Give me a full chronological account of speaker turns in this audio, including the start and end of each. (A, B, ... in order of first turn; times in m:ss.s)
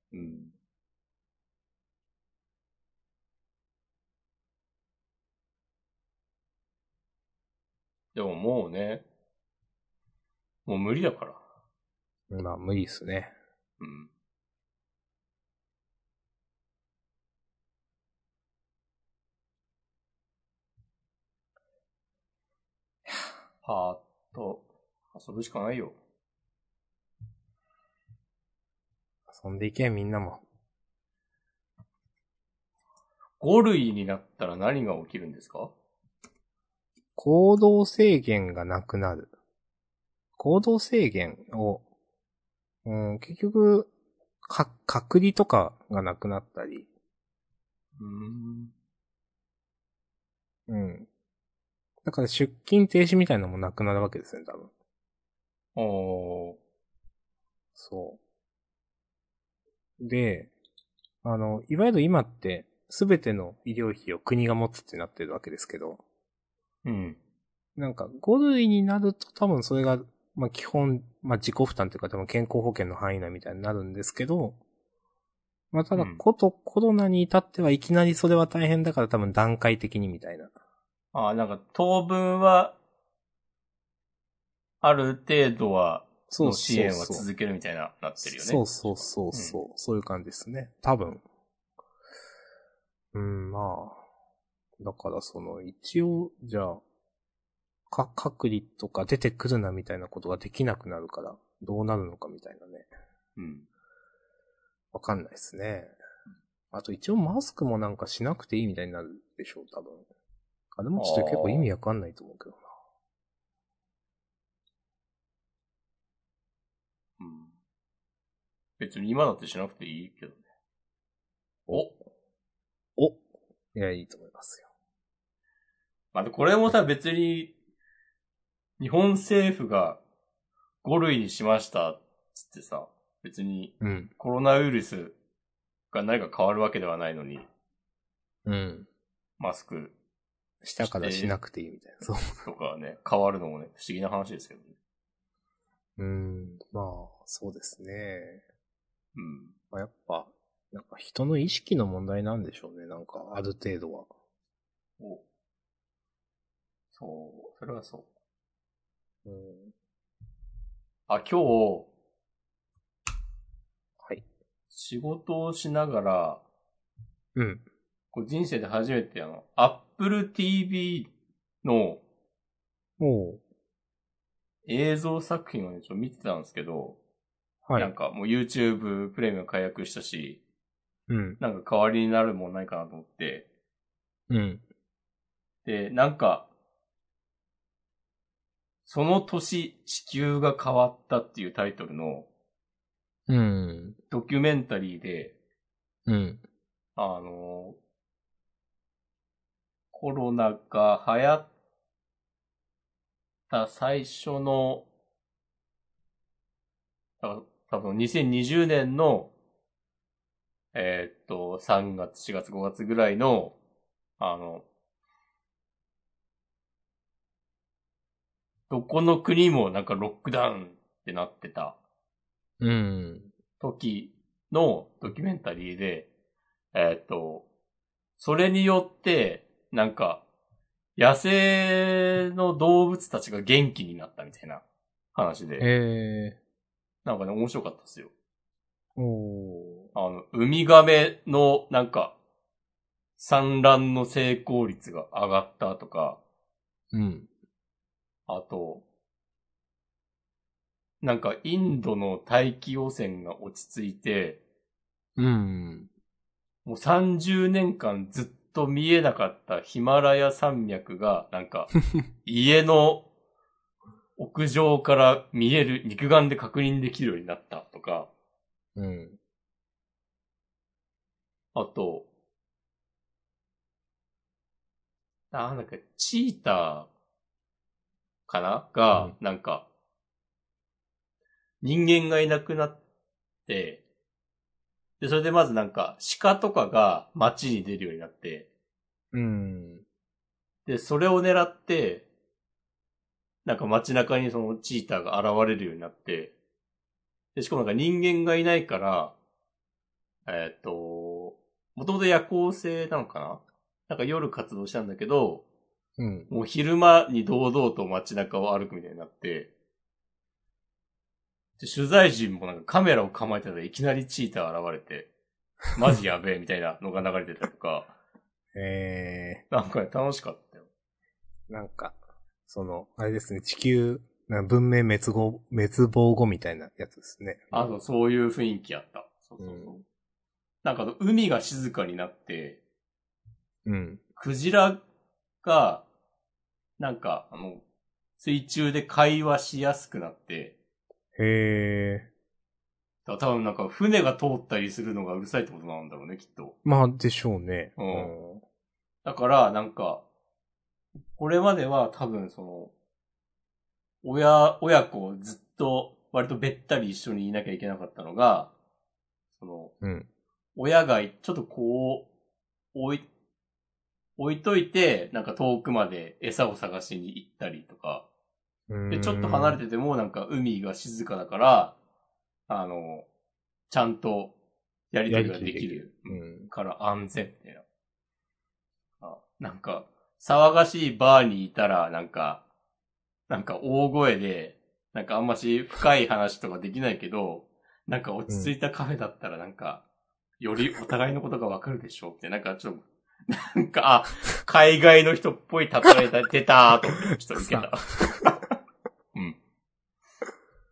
0:00.1-0:00.5 A
0:08.1-0:09.0 A
0:10.6-0:11.4 A
0:12.3-0:13.3 B
0:13.8-0:14.1 A
0:23.6-0:26.0 A
0:29.3-0:30.4 B
0:33.4-0:35.7 A
0:37.2-0:39.3 B
0:40.4-0:41.8 B
0:42.8-0:43.9 B
0:44.4-0:46.9 B
0:48.0-0:48.7 A
0:50.7-0:51.1 B
0:52.0-0:54.7 B
0:55.8-0:56.6 A
0:57.8-0:58.2 B
1:00.0-1:00.5 B
1:01.2-1:06.0 B
1:06.8-1:07.2 A
1:07.8-1:14.6 B
1:15.7-1:20.5 B
1:15.9-1:16.2 A
1:21.1-1:22.8 A
1:24.8-1:29.6 A
1:26.3-1:27.3 B
1:28.2-1:31.2 B
1:33.1-1:34.0 B
1:34.8-1:36.8 B
1:37.9-1:42.9 B
1:43.4-1:43.7 A
1:44.9-1:45.9 B
1:46.7-1:50.0 B
1:50.7-1:52.7 B
1:51.0-1:51.7 A
1:57.2-1:57.5 A
1:58.8-2:00.4 A
2:03.7-2:04.7 B
2:06.1-2:07.5 A
2:08.8-2:10.0 A
2:10.8-2:15.2 A
2:13.8-2:14.1 B
2:15.9-2:17.5 A
2:18.4-2:18.9 B
2:19.4-2:19.9 A
2:20.6-2:22.4 B
2:20.8-2:21.4 A
2:22.4-2:24.7 A
2:26.0-2:28.4 B
2:29.1-2:29.5 A
2:29.7-2:34.1 B
2:36.9-2:38.1 A
2:39.2-2:39.7 B
2:41.1-2:41.9 A
2:44.7-2:46.4 A
2:47.3-2:47.6 B
2:48.1-2:51.1 A
2:51.6-2:52.0 A
2:53.0-2:53.4 B
2:54.7-2:57.0 A
2:57.6-2:57.9 B
2:57.8-3:00.4 A
3:01.1-3:01.4 B
3:01.4-3:03.5 A
3:04.3-3:04.6 B
3:05.6-3:06.5 A
3:08.8-3:12.3 A
3:13.3-3:14.0 B
3:14.1-3:15.3 A
3:16.1-3:16.4 B
3:17.0-3:17.8 A
3:19.9-3:21.5 A
3:23.5-3:24.8 A
3:27.2-3:29.3 A
3:30.7-3:33.6 A
3:34.2-3:34.6 A
3:38.7-3:41.8 A
3:42.6-3:43.3 B
3:43.6-3:46.1 A
3:46.7-3:47.5 A
3:48.2-3:50.2 A
3:51.0-3:54.6 A
3:55.1-3:55.7 A
3:55.6-3:56.4 B
3:57.0-3:58.1 A
3:59.0-3:59.9 B
3:59.9-4:02.1 A
4:03.2-4:06.2 A
4:06.9-4:07.3 B
4:08.3-4:08.8 A
4:11.0-4:14.4 A
4:15.2-4:15.9 B
4:16.6-4:21.7 A
4:22.2-4:23.1 A
4:24.2-4:28.1 A
4:28.8-4:29.2 B
4:31.5-4:32.1 A
4:35.3-4:36.9 A
4:38.3-4:39.6 A
4:41.6-4:42.8 A
4:43.5-4:43.8 A
4:45.0-4:48.5 A
4:49.1-4:49.8 B
4:50.6-4:52.0 A
4:53.4-4:56.3 A
4:57.3-4:59.1 A
5:00.2-5:05.4 A
5:06.0-5:06.3 B
5:06.3-5:09.5 A
5:11.6-5:15.1 A
5:15.7-5:17.9 A
5:18.5-5:19.4 B
5:19.5-5:20.7 A
5:21.5-5:27.7 B
5:27.5-5:29.8 A
5:29.4-5:29.8 B
5:30.6-5:32.6 A
5:33.6-5:34.0 B
5:34.2-5:34.8 A
5:35.4-5:35.8 A
5:36.8-5:37.6 A
5:38.2-5:40.6 A
5:41.2-5:42.1 B
5:43.0-5:46.6 A
5:46.6-5:48.4 B
5:47.8-5:48.1 A
5:49.0-5:50.0 A
5:51.2-5:52.7 A
5:54.0-5:58.5 A
5:59.3-5:59.7 A
5:59.8-6:00.1 B
6:00.6-6:02.1 A
6:02.7-6:03.0 A
6:04.2-6:08.0 A
6:08.7-6:09.6 B
6:08.9-6:11.8 A
6:12.5-6:13.1 A
6:13.7-6:14.3 A
6:14.9-6:17.6 A
6:15.1-6:16.5 B
6:19.0-6:22.4 A
6:23.3-6:29.8 A
6:28.3-6:28.5 B
6:30.4-6:38.5 A
6:37.3-6:38.1 B
6:39.1-6:39.4 A